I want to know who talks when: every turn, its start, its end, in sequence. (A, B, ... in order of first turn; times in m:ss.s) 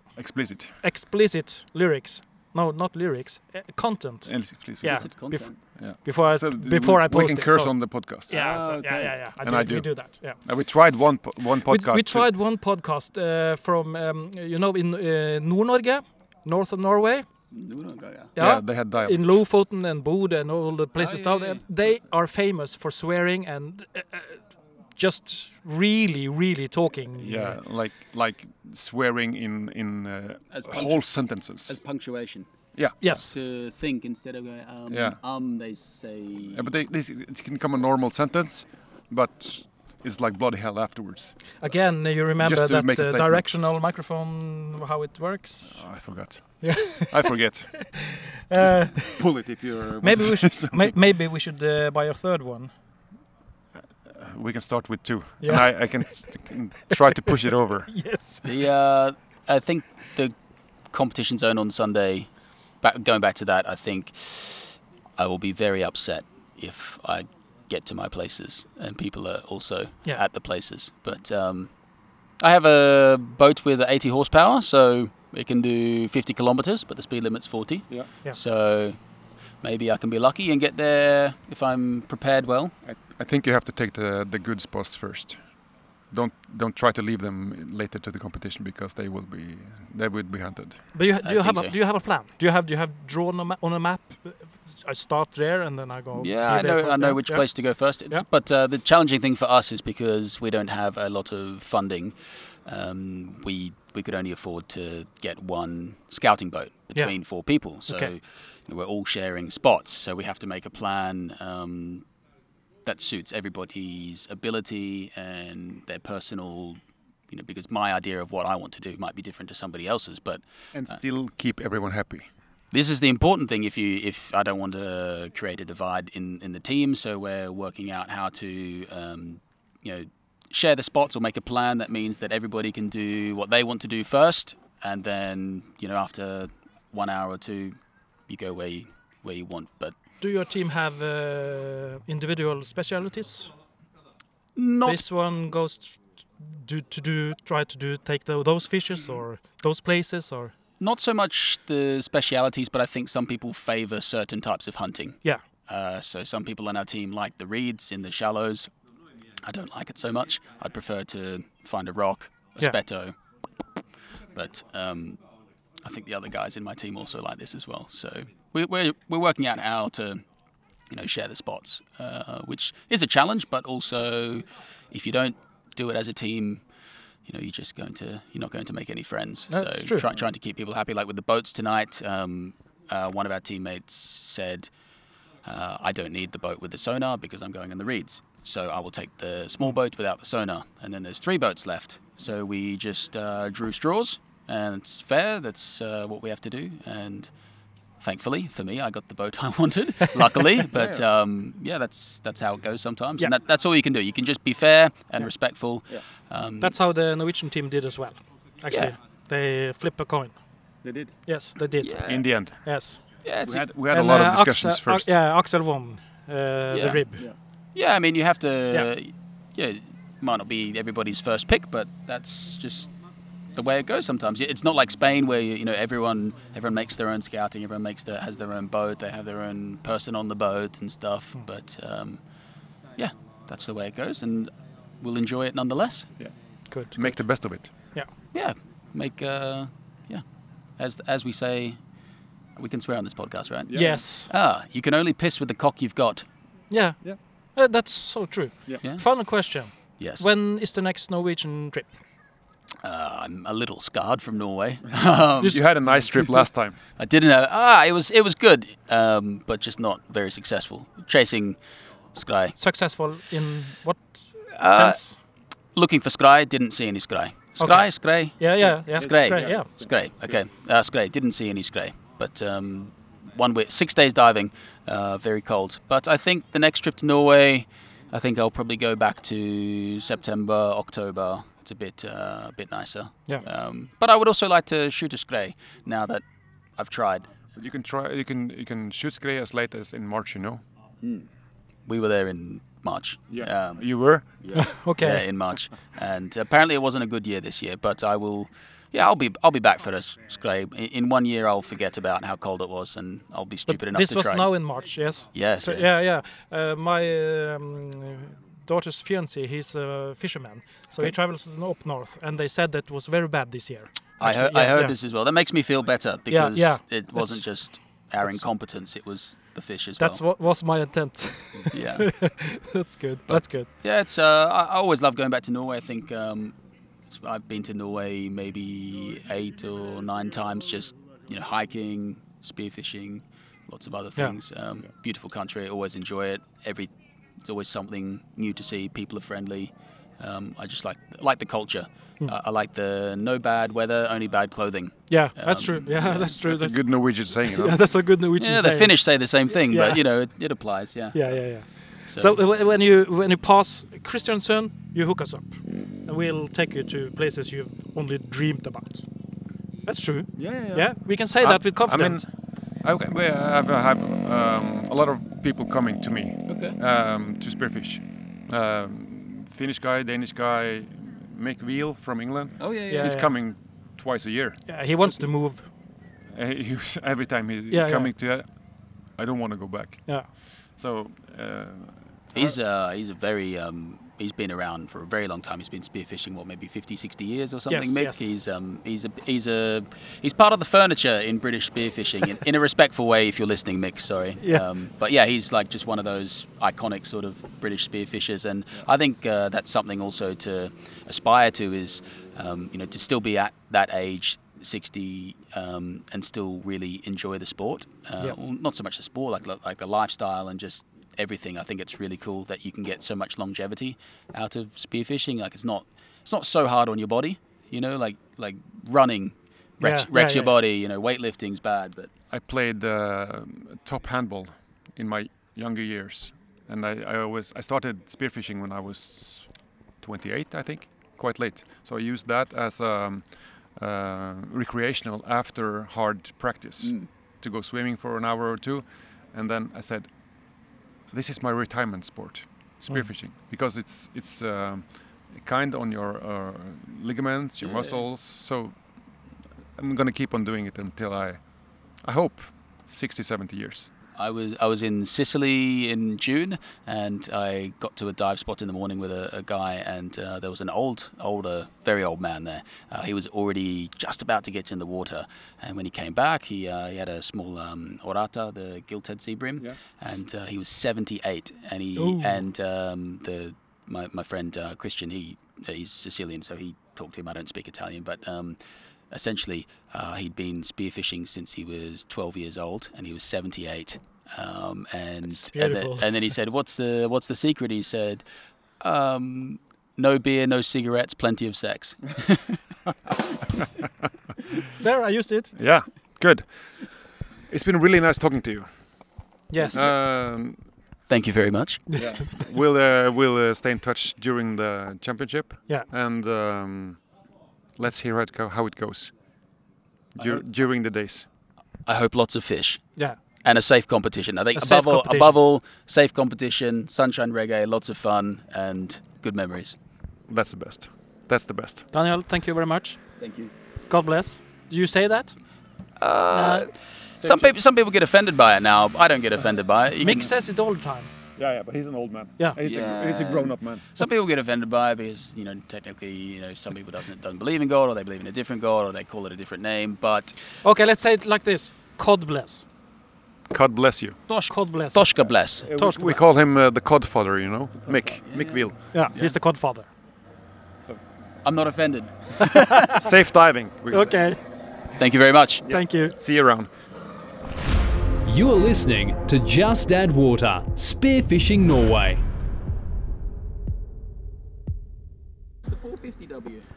0:00.2-0:00.7 A
0:00.8-0:10.4 B
0:04.2-0:05.1 A
0:04.8-0:05.6 C
0:05.6-0:08.4 A
0:08.3-0:09.2 C
0:09.4-0:12.3 A
0:11.6-0:17.2 B
0:17.5-0:18.3 C
0:18.4-0:24.4 B
0:18.4-0:19.4 A
0:21.0-0:21.6 C
0:25.0-0:27.6 B
0:27.2-0:31.8 A
0:30.5-0:31.0 C
0:31.6-0:36.6 C
0:32.7-0:33.0 A
0:33.0-0:33.3 B
0:34.9-0:35.2 A
0:36.5-0:41.3 A
0:41.6-0:45.8 B
0:42.4-0:43.4 A
0:45.6-0:48.0 A
0:46.6-0:49.2 B
0:48.6-0:50.9 A
0:50.0-0:52.7 B
0:54.0-0:57.9 A
0:55.4-0:56.2 B
0:56.9-0:57.3 B
0:57.9-0:58.5 B
0:58.4-1:00.3 C
1:00.9-1:02.3 C
1:02.8-1:11.7 C
1:12.4-1:19.0 C
1:19.6-1:22.7 C
1:22.8-1:25.4 A
1:26.1-1:30.8 A
1:30.9-1:37.4 B
1:31.2-1:31.7 C
1:36.2-1:52.0 C
1:47.9-1:48.1 B
1:52.8-2:00.9 C
2:00.7-2:02.3 A
2:02.7-2:17.8 C
2:18.3-2:19.9 C
2:20.2-2:23.5 B
2:24.6-2:25.0 C
2:24.8-2:30.5 B
2:30.8-2:38.7 C
2:39.4-2:43.1 C
2:44.3-2:45.2 C
2:45.8-2:50.2 C
2:50.9-2:56.6 C
2:57.3-3:04.7 C
2:59.5-3:00.1 B
3:05.4-3:17.3 C
3:18.0-3:26.7 C
3:20.8-3:21.0 A
3:26.6-3:30.4 B
3:30.8-3:31.1 A
3:31.2-3:32.0 B
3:31.8-3:32.3 C
3:32.0-3:32.6 A
3:32.6-3:33.0 B
3:33.2-3:33.6 C
3:33.4-3:35.2 A
3:33.9-3:37.2 B
3:36.7-3:37.0 C
3:37.7-3:42.9 C
3:43.5-3:52.2 C
3:53.0-3:56.1 C
3:56.7-3:57.2 B
3:57.0-3:57.7 A
3:58.3-4:00.2 C
4:00.8-4:01.8 C
4:02.6-4:06.3 C
4:03.7-4:04.0 A
4:03.7-4:04.3 B
4:06.7-4:07.0 B
4:07.5-4:11.9 B
4:10.0-4:10.2 C
4:12.8-4:15.6 C
4:15.4-4:16.8 A
4:17.0-4:21.6 C
4:22.1-4:22.6 C
4:22.6-4:25.2 B
4:24.6-4:25.0 C
4:25.7-4:46.2 C
4:27.6-4:27.9 B
4:28.4-4:29.7 B
4:29.0-4:29.9 A
4:46.8-4:47.3 C
4:47.5-4:50.6 A
4:51.0-4:51.3 C
4:51.9-4:53.9 C
4:53.3-4:54.2 A
4:54.4-5:04.5 C
4:54.5-4:55.2 B
5:03.7-5:14.9 B
5:05.3-5:05.9 C
5:14.2-5:20.2 C
5:16.3-5:17.4 B
5:20.0-5:23.7 B
5:21.7-5:22.1 C
5:23.3-5:26.5 C
5:27.1-5:46.3 C
5:45.1-5:46.8 B
5:46.4-5:47.8 A
5:47.4-5:48.9 B
5:48.4-5:51.3 C
5:49.7-5:50.0 B
5:51.1-5:59.0 B
5:52.1-5:52.4 C
5:59.8-6:02.2 B
6:00.4-6:02.3 A
6:02.8-6:14.6 A
6:06.5-6:06.8 C
6:12.6-6:13.1 C
6:12.9-6:13.3 B
6:14.7-6:15.7 B
6:16.3-6:18.4 A
6:17.7-6:18.1 B
6:19.2-6:20.1 A
6:20.7-6:22.6 A
6:22.3-7:02.1 C
6:27.7-6:28.2 B
6:59.8-7:00.5 B
7:02.3-7:09.5 A
7:10.0-7:20.1 A
7:21.1-7:28.8 A
7:29.8-7:31.4 A
7:32.0-7:33.9 A
7:34.2-7:58.6 C
7:52.0-7:52.4 B
7:59.1-8:08.2 C
8:05.3-8:06.1 B
8:08.8-8:12.6 C
8:14.8-8:15.5 B
8:15.6-8:16.8 A
8:17.5-8:18.7 A
8:19.5-8:19.8 B
8:19.6-8:19.9 C
8:19.7-8:20.6 A
8:21.1-8:22.3 C
8:21.9-8:22.4 B
8:22.0-8:27.0 A
8:27.8-8:29.1 A
8:30.2-8:31.2 A
8:31.8-8:32.8 C
8:33.4-8:39.8 C
8:34.6-8:35.3 B
8:40.3-8:41.8 A
8:41.9-8:43.0 B
8:43.2-8:43.5 C
8:43.9-8:45.3 B
8:46.0-8:50.3 C
8:46.3-8:46.7 B
8:50.0-8:51.1 B
8:51.4-8:53.9 A
8:52.6-9:00.4 C
9:00.6-9:02.6 B
9:03.5-9:04.2 A
9:04.3-9:05.7 C
9:04.5-9:05.1 B
9:05.6-9:08.8 A
9:05.7-9:06.3 B
9:07.9-9:09.4 C
9:08.9-9:09.9 B
9:11.4-9:12.7 C
9:12.4-9:13.1 B
9:12.8-9:14.2 A
9:13.9-9:14.4 B
9:15.0-9:15.7 C
9:15.6-9:16.7 A
9:15.7-9:16.2 B
9:18.2-9:22.2 D
9:25.6-9:26.6 C